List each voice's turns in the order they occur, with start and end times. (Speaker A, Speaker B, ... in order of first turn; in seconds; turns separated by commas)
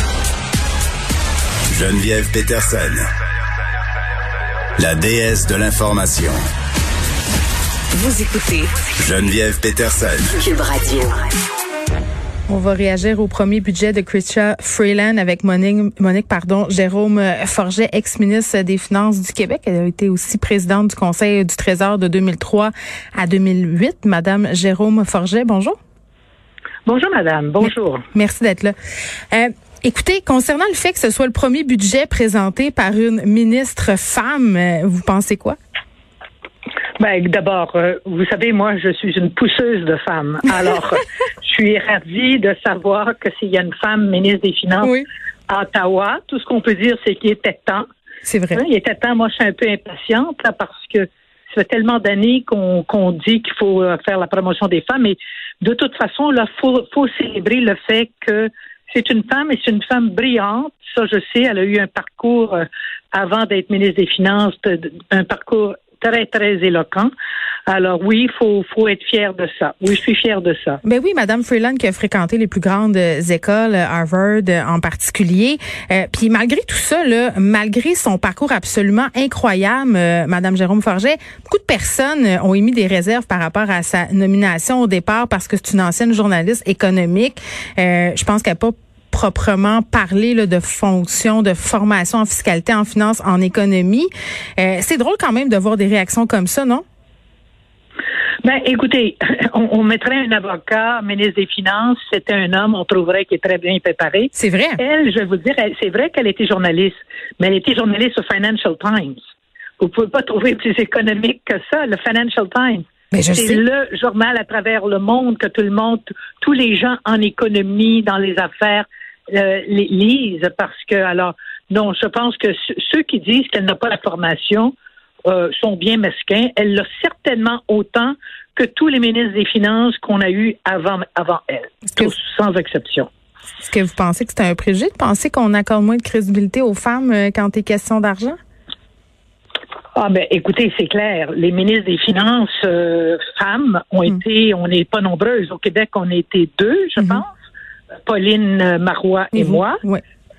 Speaker A: 1.7-3.1, Speaker A: 4.8-6.4, Speaker B: 7.9-8.9, Speaker A: 8.9-10.3, Speaker B: 10.3-11.3, Speaker C: 12.5-25.8, Speaker D: 26.9-28.0, Speaker C: 28.1-28.7, Speaker C: 29.3-35.6, Speaker D: 37.0-44.9, Speaker D: 45.5-47.9, Speaker C: 48.2-48.6, Speaker D: 48.5-67.1, Speaker D: 67.7-70.8, Speaker C: 70.8-96.8, Speaker D: 98.4-109.2, Speaker C: 104.3-104.8, Speaker D: 109.8-124.7, Speaker C: 113.1-113.6, Speaker D: 125.2-133.1, Speaker C: 133.6-138.4, Speaker D: 139.9-147.3, Speaker C: 147.0-147.2, Speaker D: 148.1-149.8, Speaker C: 149.3-150.0